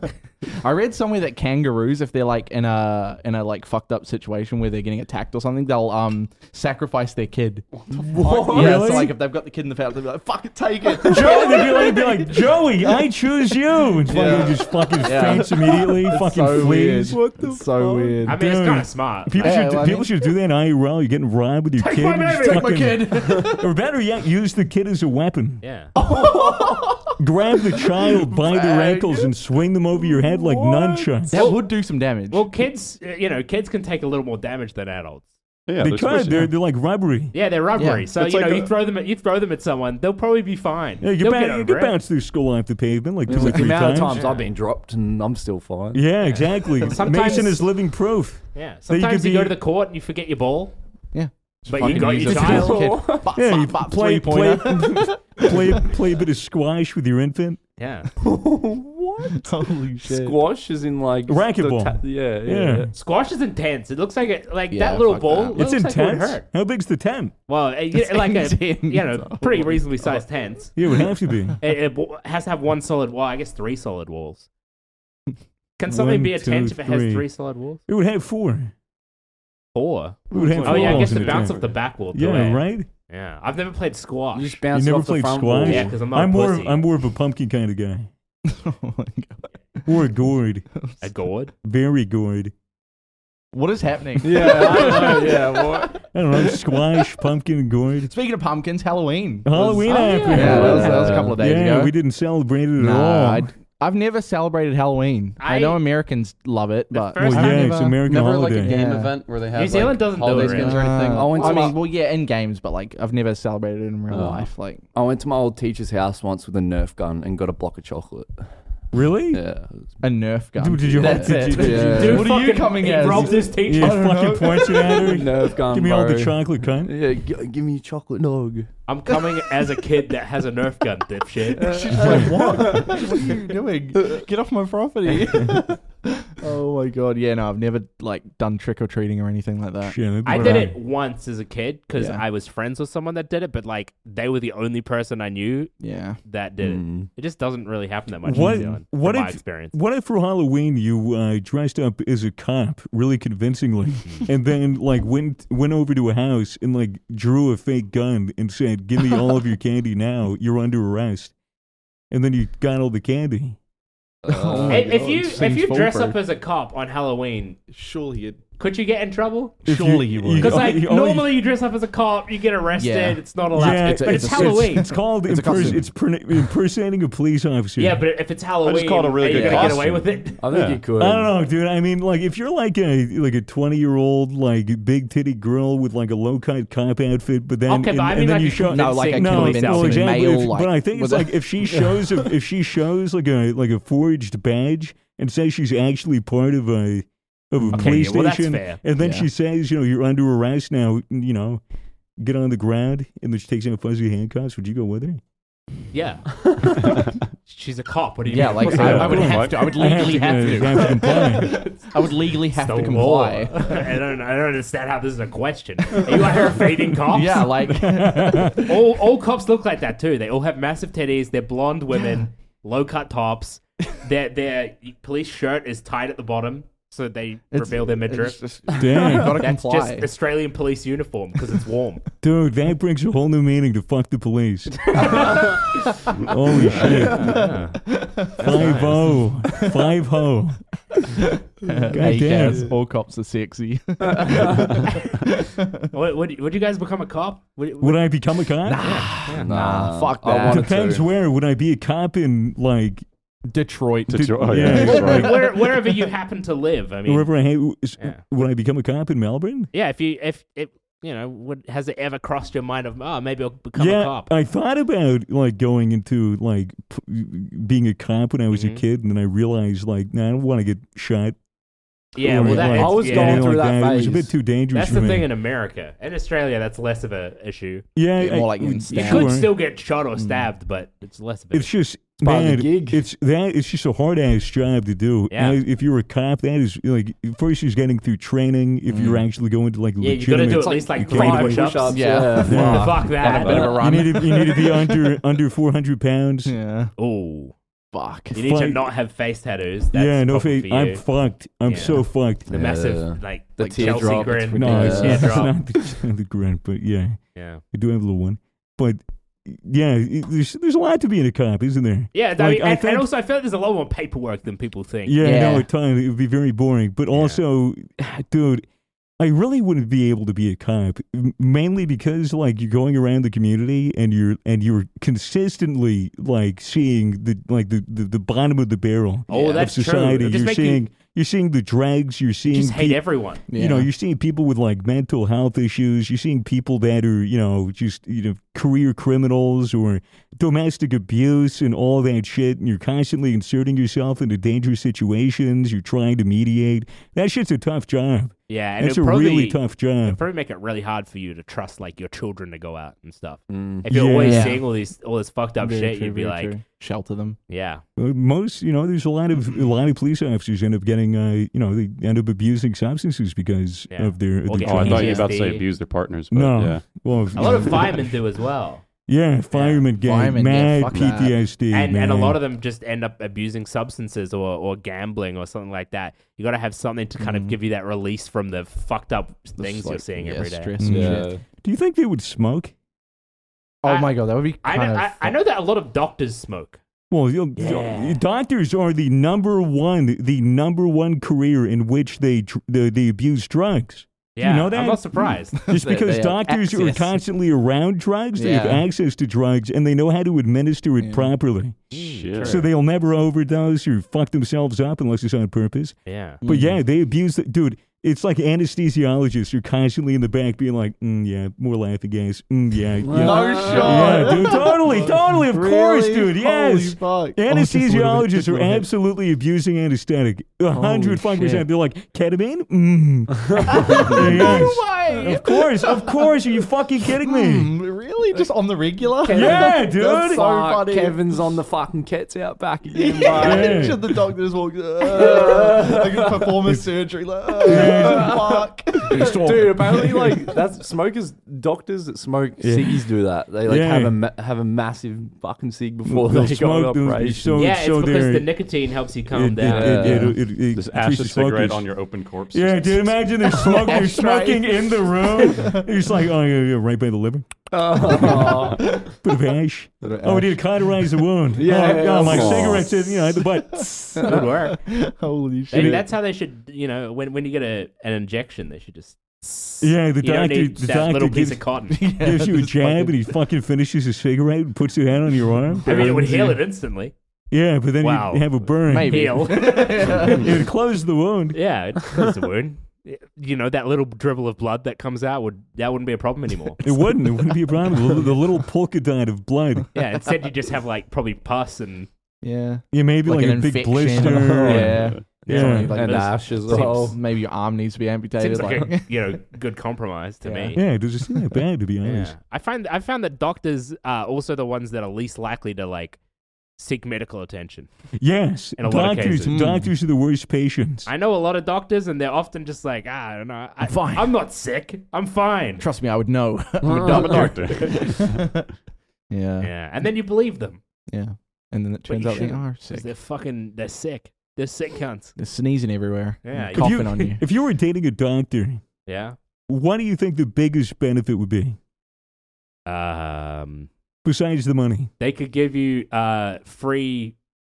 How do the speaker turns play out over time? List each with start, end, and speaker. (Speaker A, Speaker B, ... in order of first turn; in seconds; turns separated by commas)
Speaker A: 0.6-12.4, Speaker B: 8.1-9.1, Speaker C: 8.5-9.2, Speaker C: 11.0-17.2, Speaker B: 11.1-11.5, Speaker A: 14.1-18.4, Speaker B: 14.1-14.6, Speaker B: 15.1-15.4, Speaker B: 17.1-18.3, Speaker D: 18.2-19.7, Speaker C: 18.4-25.6, Speaker A: 19.4-20.1, Speaker D: 21.8-23.0, Speaker A: 22.4-23.7, Speaker D: 25.6-25.9, Speaker A: 25.9-27.2, Speaker B: 26.0-26.9, Speaker C: 27.2-31.3, Speaker A: 28.2-29.3, Speaker A: 30.0-32.5, Speaker D: 31.3-35.3, Speaker E: 35.7-36.5, Speaker C: 35.8-37.3, Speaker D: 37.3-42.0, Speaker A: 37.8-38.1, Speaker E: 38.3-38.6, Speaker C: 41.0-44.3, Speaker B: 43.3-46.0, Speaker D: 44.0-44.5, Speaker C: 45.9-49.6, Speaker D: 46.2-47.7, Speaker D: 48.5-50.8, Speaker A: 51.1-55.6, Speaker D: 51.7-53.0, Speaker B: 51.9-53.3, Speaker C: 53.3-57.6, Speaker D: 57.8-58.1, Speaker B: 58.2-59.5, Speaker A: 59.3-60.4, Speaker B: 60.0-62.9, Speaker C: 61.3-62.9, Speaker D: 62.9-66.5, Speaker A: 64.7-65.6, Speaker C: 65.6-67.3, Speaker D: 67.5-70.8, Speaker A: 67.9-70.2, Speaker C: 70.8-71.6, Speaker D: 71.6-74.5, Speaker D: 75.8-77.8, Speaker C: 75.9-77.3, Speaker C: 77.9-78.7, Speaker D: 79.7-84.6, Speaker B: 80.3-81.6, Speaker C: 80.3-82.9, Speaker B: 84.3-86.0, Speaker C: 84.7-88.1, Speaker D: 85.6-86.8, Speaker A: 88.5-89.4, Speaker C: 89.9-90.7, Speaker D: 91.0-91.5, Speaker C: 91.6-92.5, Speaker A: 93.5-95.9, Speaker B: 94.2-96.0, Speaker C: 94.6-95.4, Speaker C: 96.1-98.1, Speaker A: 98.1-102.0, Speaker C: 99.5-103.5, Speaker D: 99.9-101.1, Speaker B: 100.3-101.4, Speaker A: 102.8-108.0, Speaker D: 105.4-105.8, Speaker D: 106.9-107.9, Speaker C: 107.2-108.8, Speaker E: 108.0-111.6, Speaker A: 108.6-109.3, Speaker D: 109.5-110.8, Speaker A: 110.3-114.8, Speaker B: 110.7-111.8, Speaker D: 111.4-111.7, Speaker E: 114.1-114.5, Speaker B: 114.9-118.5, Speaker C: 118.9-119.4, Speaker B: 119.3-119.9, Speaker A: 120.0-125.1, Speaker C: 120.6-122.3, Speaker B: 121.0-122.2, Speaker D: 121.4-124.1, Speaker C: 123.6-127.0, Speaker B: 125.0-128.7, Speaker D: 128.9-131.9, Speaker B: 131.5-133.4, Speaker A: 131.6-140.7, Speaker C: 139.8-140.8, Speaker D: 140.2-145.7, Speaker A: 141.9-142.2, Speaker A: 145.8-146.2, Speaker D: 146.2-149.8, Speaker B: 146.6-147.1, Speaker C: 148.2-161.3, Speaker A: 148.4-148.7, Speaker C: 162.1-163.6, Speaker B: 164.2-165.1, Speaker A: 164.3-166.2, Speaker D: 164.7-167.6, Speaker A: 167.7-168.4, Speaker D: 168.6-169.6, Speaker A: 169.6-170.7, Speaker C: 169.7-171.3, Speaker D: 170.4-175.0, Speaker A: 172.8-176.5, Speaker C: 173.6-178.0, Speaker D: 177.8-180.4, Speaker E: 178.6-180.8, Speaker A: 179.2-179.8, Speaker B: 180.4-181.3, Speaker C: 181.0-201.6, Speaker D: 187.7-190.2, Speaker A: 188.7-191.8, Speaker A: 197.6-198.2, Speaker D: 197.7-198.8, Speaker A: 199.0-199.3, Speaker C: 202.2-205.2, Speaker D: 205.9-206.8, Speaker D: 207.5-210.3, Speaker A: 208.3-214.0, Speaker C: 208.7-211.6, Speaker E: 208.8-210.0, Speaker D: 212.5-217.7, Speaker A: 215.9-218.8, Speaker C: 217.7-218.6, Speaker D: 218.6-228.4, Speaker A: 227.5-230.1, Speaker C: 228.8-229.4, Speaker D: 229.3-232.1, Speaker C: 232.2-235.1, Speaker D: 235.0-235.4, Speaker C: 236.2-237.5, Speaker D: 236.6-239.4, Speaker A: 236.8-238.9, Speaker C: 238.4-240.6, Speaker A: 241.6-245.5, Speaker C: 241.9-242.7, Speaker B: 244.0-244.8, Speaker D: 245.9-248.2, Speaker C: 247.8-248.9, Speaker A: 248.7-250.8, Speaker D: 248.8-249.5, Speaker B: 249.3-251.1, Speaker C: 250.3-253.0, Speaker A: 253.5-255.1, Speaker E: 254.1-255.4, Speaker C: 254.1-255.4, Speaker D: 254.9-257.3, Speaker C: 257.1-259.7, Speaker D: 259.7-264.3, Speaker C: 263.8-271.4, Speaker D: 268.5-268.8, Speaker D: 272.1-273.6, Speaker C: 272.2-275.3, Speaker B: 272.4-274.3, Speaker D: 274.7-277.9, Speaker C: 277.9-279.5, Speaker A: 278.2-279.5, Speaker D: 278.9-281.7, Speaker A: 280.2-280.5, Speaker C: 281.5-291.9, Speaker B: 282.2-283.0, Speaker D: 285.3-285.6, Speaker A: 288.9-289.2, Speaker D: 290.0-293.8, Speaker B: 290.7-294.1, Speaker A: 291.9-295.1, Speaker C: 292.4-293.0, Speaker C: 293.8-296.5, Speaker A: 296.5-296.9, Speaker D: 297.0-297.6, Speaker A: 297.9-298.5, Speaker D: 298.3-305.6, Speaker C: 298.4-298.9, Speaker C: 299.9-302.5, Speaker B: 302.5-305.5, Speaker A: 303.6-305.2, Speaker C: 304.6-307.2, Speaker D: 307.4-307.6, Speaker C: 307.7-313.1, Speaker D: 312.1-315.2, Speaker C: 315.1-318.7, Speaker A: 315.2-315.7, Speaker D: 317.1-317.4, Speaker C: 319.2-350.2, Speaker D: 329.3-330.9, Speaker D: 332.4-333.4, Speaker A: 333.5-333.9, Speaker D: 348.5-356.6, Speaker B: 353.5-353.9, Speaker C: 353.9-354.6, Speaker A: 354.2-354.7, Speaker A: 355.6-357.4, Speaker D: 357.5-357.8, Speaker C: 358.0-365.3, Speaker D: 363.9-365.7, Speaker E: 364.6-367.1, Speaker C: 366.3-368.2, Speaker D: 367.3-368.9, Speaker C: 369.1-372.4, Speaker D: 369.5-369.9, Speaker A: 370.0-371.4, Speaker E: 370.9-371.2, Speaker D: 371.7-380.8, Speaker A: 377.2-377.6, Speaker A: 379.8-381.3, Speaker C: 380.8-382.7, Speaker B: 380.8-381.4, Speaker A: 383.8-385.3, Speaker D: 383.9-386.8, Speaker C: 387.1-427.7, Speaker D: 387.6-388.2, Speaker D: 394.4-395.6, Speaker A: 395.6-397.2, Speaker A: 398.4-398.8, Speaker A: 401.0-401.3, Speaker D: 401.9-402.7, Speaker E: 402.0-402.7, Speaker D: 406.1-406.4, Speaker A: 406.4-406.8, Speaker B: 413.0-414.5, Speaker A: 413.1-418.9, Speaker A: 420.7-421.6, Speaker A: 423.7-426.3, Speaker B: 423.7-424.1, Speaker A: 427.2-431.4, Speaker B: 429.2-434.1, Speaker C: 429.3-430.4, Speaker A: 432.9-440.6, Speaker C: 433.3-434.0, Speaker B: 435.0-436.7, Speaker B: 437.6-447.6, Speaker C: 437.6-438.4, Speaker C: 439.1-439.7, Speaker C: 442.6-443.1, Speaker C: 443.6-444.2, Speaker C: 446.1-448.6, Speaker D: 447.6-450.2, Speaker C: 449.3-451.9, Speaker B: 449.6-450.4, Speaker E: 450.6-453.3, Speaker C: 452.5-457.5, Speaker A: 453.5-455.8, Speaker B: 457.7-459.0, Speaker C: 458.1-463.9, Speaker A: 460.0-460.6, Speaker B: 461.6-462.8, Speaker E: 462.2-462.9, Speaker A: 463.4-466.1, Speaker B: 464.2-464.5, Speaker D: 464.2-464.8, Speaker D: 465.7-472.0, Speaker C: 465.7-466.0, Speaker C: 469.8-476.2, Speaker A: 471.9-473.2, Speaker A: 475.8-476.6, Speaker D: 475.8-477.1, Speaker C: 477.5-481.6, Speaker D: 478.0-480.5, Speaker A: 478.9-480.6, Speaker D: 481.5-486.8, Speaker C: 486.8-489.9, Speaker D: 489.9-492.1, Speaker A: 492.4-499.4, Speaker C: 492.9-496.0, Speaker B: 494.2-495.2, Speaker E: 494.9-495.3, Speaker D: 495.5-497.1, Speaker B: 495.9-497.2, Speaker D: 498.4-500.8, Speaker A: 500.4-500.8, Speaker C: 500.8-502.4, Speaker D: 502.0-506.2, Speaker D: 506.8-507.9, Speaker C: 508.2-511.1, Speaker D: 508.8-509.5, Speaker A: 509.5-509.9, Speaker D: 511.1-515.9, Speaker A: 513.9-514.3, Speaker A: 515.8-518.7, Speaker E: 516.8-518.4, Speaker B: 517.0-517.5, Speaker A: 519.3-519.7, Speaker D: 519.6-520.8, Speaker A: 521.1-523.1, Speaker D: 522.1-525.4, Speaker A: 525.4-527.4, Speaker D: 526.4-527.4, Speaker C: 526.8-528.8, Speaker D: 529.1-529.4, Speaker C: 529.7-531.8, Speaker D: 532.9-533.9, Speaker C: 534.2-535.1, Speaker D: 535.2-537.4